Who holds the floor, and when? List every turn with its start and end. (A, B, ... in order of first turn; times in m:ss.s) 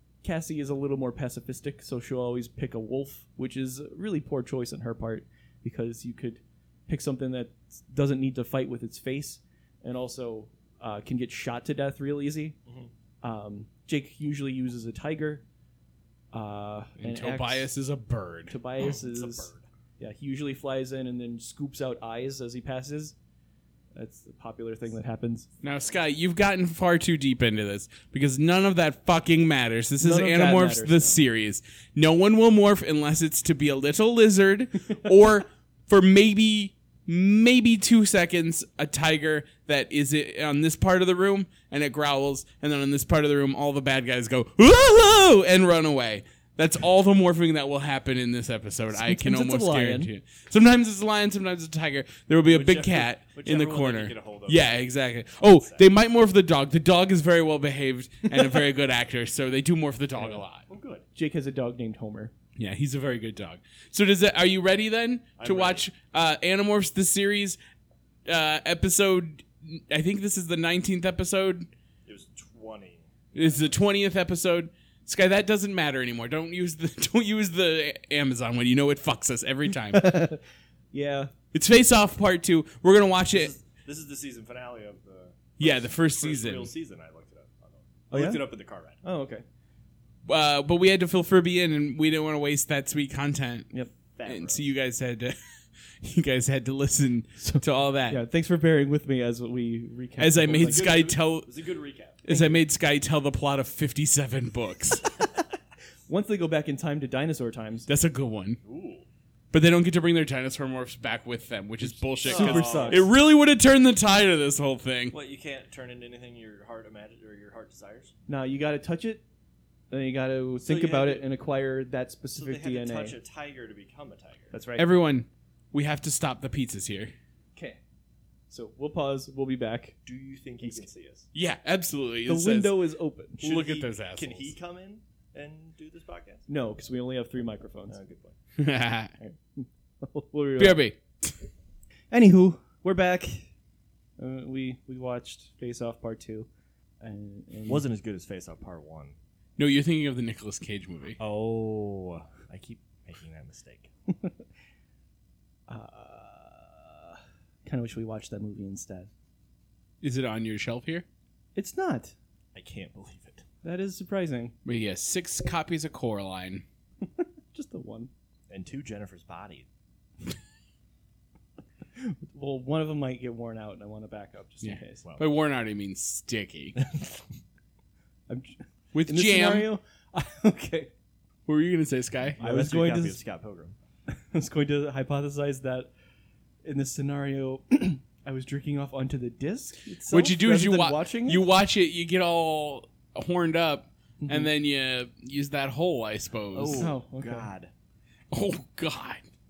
0:00.2-0:12.6 A
0:13.2-0:15.4 A
0:16.3-0:17.7 A
0:17.0-0:18.6 B
0:18.5-0:23.2 A
0:18.8-0:19.6 C
0:24.0-0:25.5 A
0:25.6-1:00.7 B
0:30.0-0:31.2 A
0:48.9-0:50.1 A
0:52.5-0:55.8 C
1:00.7-1:01.0 C
1:01.2-1:02.3 A
1:02.6-1:07.6 B
1:05.4-1:05.9 C
1:08.3-1:11.7 B
1:12.1-1:13.7 C
1:13.3-1:20.1 B
1:19.8-1:20.4 A
1:20.9-1:21.3 A
1:21.5-1:23.5 B
1:23.3-1:29.0 C
1:25.6-1:26.7 B
1:28.1-1:28.5 A
1:29.0-1:29.4 A
1:30.3-1:33.7 B
1:34.1-1:34.7 C
1:34.3-1:35.4 B
1:36.0-1:38.2 B
1:37.4-1:40.9 A
1:40.2-1:41.5 B
1:40.5-1:42.2 C
1:42.2-1:45.1 B
1:42.3-1:42.6 A
1:46.1-1:47.9 A
1:47.9-1:48.6 B
1:48.6-1:49.1 C
1:49.5-1:55.2 B
1:52.2-1:53.1 A
1:52.2-1:53.1 C
1:55.1-1:58.1 C
1:58.3-1:59.2 A
1:59.9-2:03.2 A
2:00.6-2:01.3 C
2:02.4-2:04.5 C
2:04.5-2:04.9 A
2:04.8-2:07.1 B
2:08.5-2:10.0 A
2:10.0-2:11.3 C
2:11.3-2:12.8 B
2:12.3-2:13.5 A
2:13.4-2:14.5 B
2:13.4-2:16.5 C
2:16.5-2:18.0 A
2:17.9-2:18.4 C
2:18.6-2:19.1 B
2:19.2-2:20.8 A
2:20.6-2:21.3 B
2:22.1-2:23.5 A
2:24.2-2:26.5 A
2:27.0-2:27.9 A
2:27.7-2:29.2 C
2:29.6-2:31.2 B
2:31.2-2:33.9 C
2:35.7-2:39.1 A
2:40.0-2:41.0 B
2:41.6-2:42.2 A
2:42.5-2:43.4 C
2:43.6-2:44.5 A
2:44.6-2:46.6 B
2:47.2-2:48.1 A
2:48.5-2:49.7 C
2:52.0-2:55.0 A
2:54.6-2:56.8 B
2:55.0-2:55.3 C
2:56.9-2:57.2 C
2:58.3-3:00.9 A
2:58.9-2:59.7 B
3:01.5-3:02.4 B
3:02.4-3:03.8 C
3:02.4-3:03.2 A
3:04.1-3:05.9 A
3:06.6-3:11.4 A
3:10.1-3:16.9 B
3:14.2-3:14.5 A
3:16.5-3:17.7 C
3:16.7-3:17.5 A
3:18.3-3:19.3 B